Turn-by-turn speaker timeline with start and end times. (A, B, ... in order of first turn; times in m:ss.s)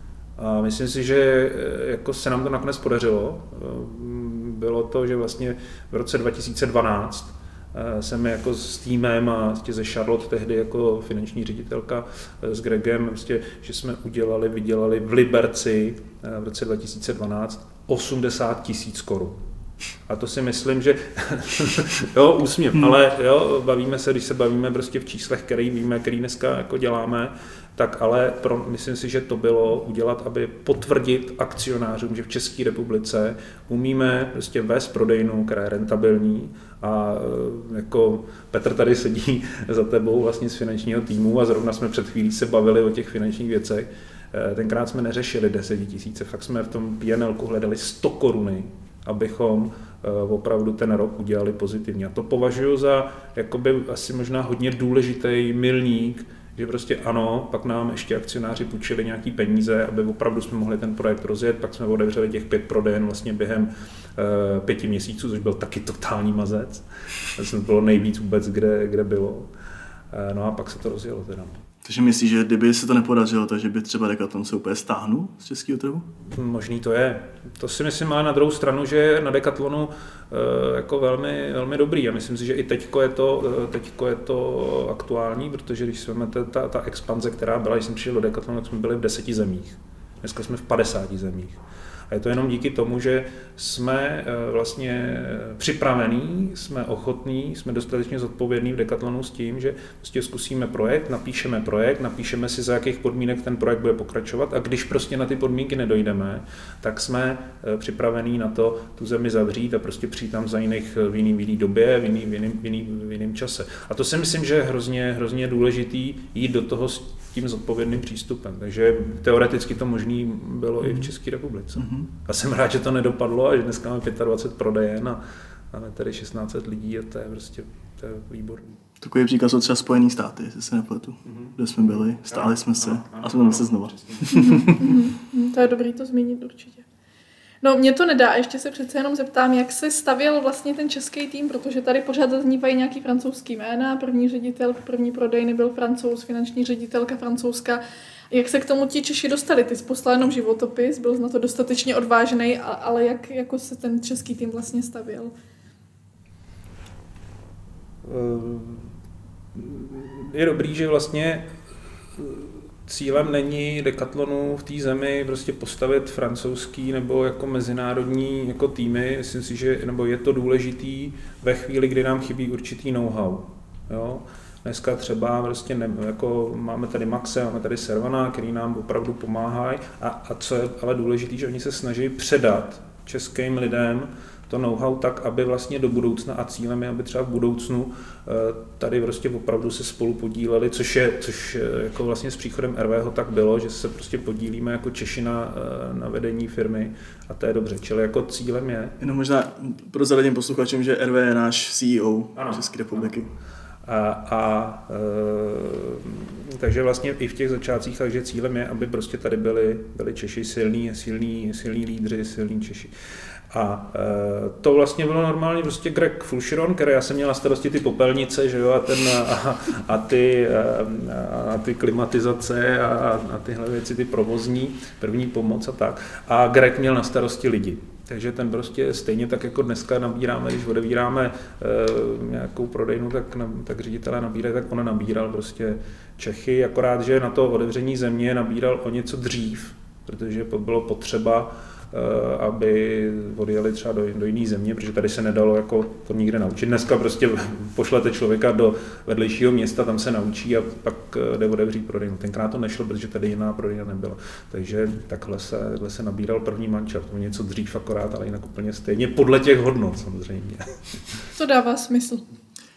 0:00.4-0:19.4 A
0:20.1-1:09.5 A
1:10.1-1:11.6 A
1:11.8-1:16.1 B
1:16.3-1:31.6 A
1:32.1-2:05.2 A
2:00.8-2:01.1 B
2:01.8-2:02.1 B
2:05.7-2:08.8 A
2:09.0-2:15.0 B
2:11.3-2:11.6 A
2:12.3-2:14.7 A
2:14.3-2:16.8 C
2:17.6-2:35.3 C
2:38.0-2:38.9 A
2:39.6-2:41.5 A
2:42.2-3:19.0 A
3:19.0-3:23.3 B
3:22.4-3:22.6 A
3:23.8-3:32.9 A
3:33.5-4:20.7 A
4:21.4-4:22.2 C